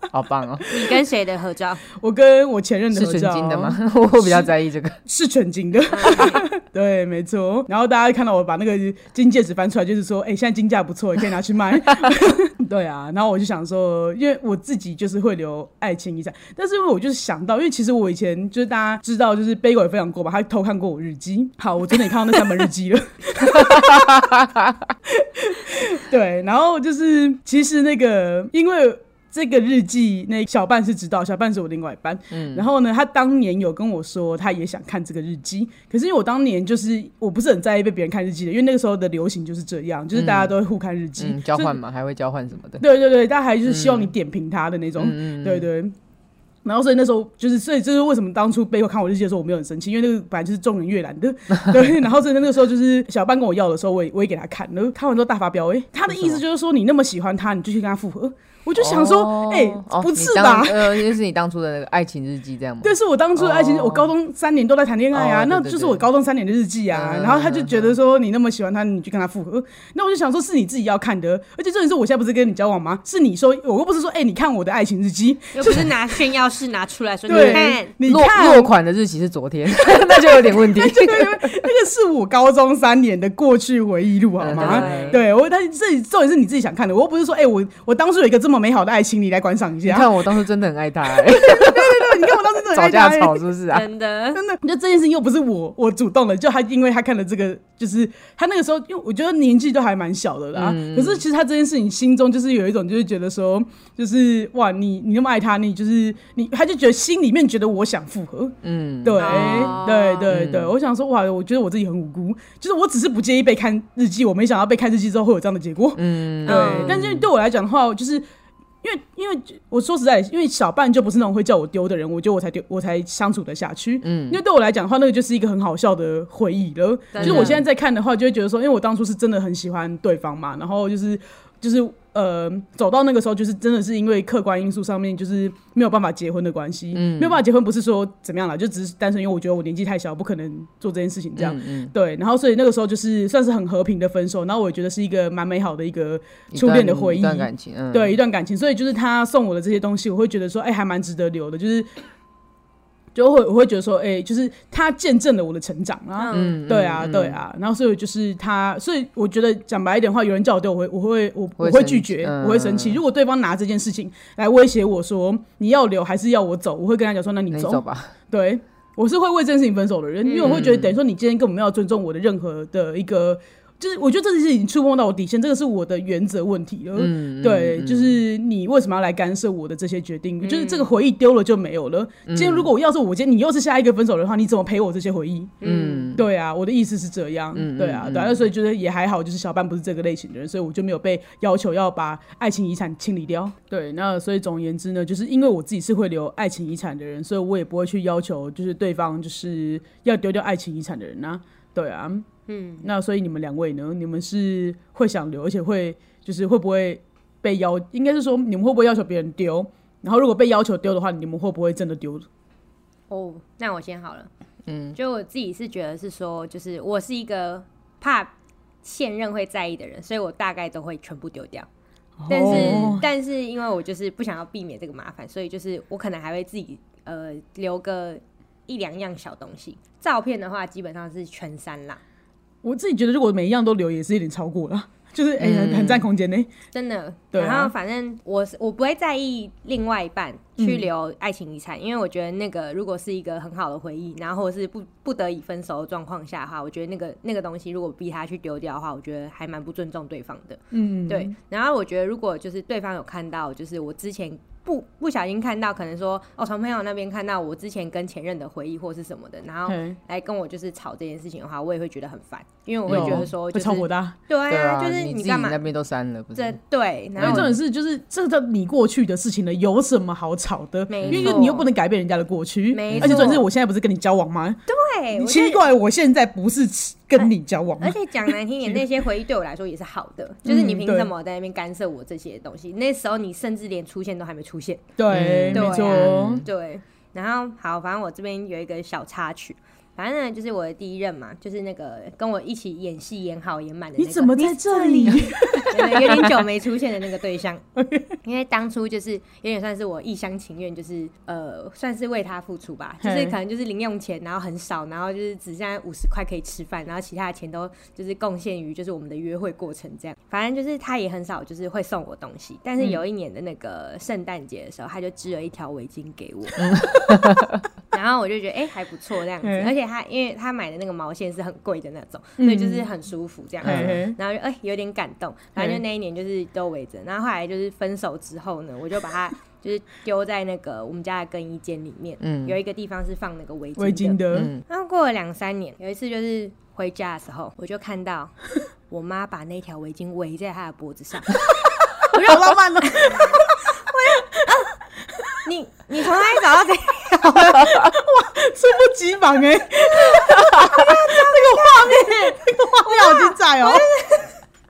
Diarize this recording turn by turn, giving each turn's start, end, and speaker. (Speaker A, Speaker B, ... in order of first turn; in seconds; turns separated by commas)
Speaker A: 0.1-0.8, Speaker B: 0.7-1.8, Speaker C: 1.9-4.5, Speaker A: 2.9-5.0, Speaker C: 5.1-24.3, Speaker B: 5.9-6.4, Speaker A: 23.4-24.9, Speaker C: 25.1-41.8, Speaker A: 32.3-32.7, Speaker A: 40.1-40.5, Speaker A: 41.2-42.9, Speaker C: 42.8-45.9, Speaker A: 43.6-44.1, Speaker A: 45.0-45.7, Speaker C: 46.6-61.2, Speaker A: 56.0-56.4, Speaker A: 58.8-64.1, Speaker C: 62.8-76.3, Speaker A: 65.1-66.1, Speaker A: 66.9-68.0, Speaker B: 75.5-77.9, Speaker C: 77.3-78.7, Speaker A: 77.3-81.7, Speaker C: 79.9-90.1, Speaker A: 84.4-85.2, Speaker B: 84.5-85.2, Speaker A: 89.8-93.9, Speaker C: 91.1-93.5, Speaker B: 93.7-94.4, Speaker C: 94.3-118.2, Speaker A: 100.5-101.2, Speaker A: 108.6-110.7, Speaker B: 109.2-110.3, Speaker A: 116.0-117.3, Speaker B: 116.5-117.0, Speaker C: 118.8-151.9, Speaker A: 124.0-124.4, Speaker B: 127.1-127.6, Speaker A: 127.2-127.6, Speaker A: 136.9-137.4, Speaker A: 141.4-141.9, Speaker A: 146.5-148.2, Speaker C: 153.1-185.6, Speaker B: 156.2-156.6, Speaker A: 156.3-157.4, Speaker A: 161.6-163.0, Speaker A: 167.5-168.1, Speaker B: 170.2-170.7, Speaker A: 170.4-171.0, Speaker A: 176.9-178.2, Speaker B: 180.4-180.9, Speaker A: 182.3-182.7, Speaker B: 185.6-186.1, Speaker A: 185.6-186.2, Speaker C: 186.1-202.3, Speaker A: 187.5-188.4, Speaker B: 202.5-202.9, Speaker C: 202.8-212.2, Speaker B: 213.1-214.3, Speaker A: 214.7-215.0, Speaker B: 214.9-218.3, Speaker B: 218.8-221.7, Speaker C: 222.2-223.1, Speaker B: 222.3-232.0, Speaker A: 222.5-223.0, Speaker C: 232.6-236.5, Speaker A: 235.4-236.1, Speaker B: 236.7-265.6, Speaker C: 237.3-237.7, Speaker C: 240.6-240.9, Speaker C: 250.7-251.3, Speaker C: 259.7-260.0, Speaker A: 262.9-263.3, Speaker C: 262.9-264.2, Speaker A: 264.5-266.6, Speaker B: 266.4-267.6, Speaker A: 267.2-267.6, Speaker C: 267.2-274.6, Speaker B: 270.9-271.7, Speaker A: 271.1-271.5, Speaker B: 272.7-273.5, Speaker A: 272.9-273.4, Speaker B: 274.7-275.6, Speaker C: 275.1-278.9, Speaker B: 277.2-284.9, Speaker C: 280.5-281.1, Speaker C: 285.0-286.4, Speaker A: 285.1-286.5, Speaker B: 285.5-297.6, Speaker C: 294.0-296.3, Speaker A: 295.6-296.2, Speaker C: 297.8-298.1, Speaker B: 298.2-317.2, Speaker C: 303.0-303.4, Speaker A: 316.6-317.6, Speaker B: 317.9-338.4, Speaker C: 319.4-319.7, Speaker C: 322.4-322.9, Speaker A: 323.6-324.0, Speaker C: 323.6-324.2, Speaker A: 332.2-332.6, Speaker C: 333.8-334.5, Speaker A: 334.3-334.6, Speaker B: 338.9-341.5, Speaker B: 342.0-344.8, Speaker C: 342.0-343.8, Speaker B: 345.4-347.8, Speaker C: 347.6-353.9, Speaker B: 349.9-354.4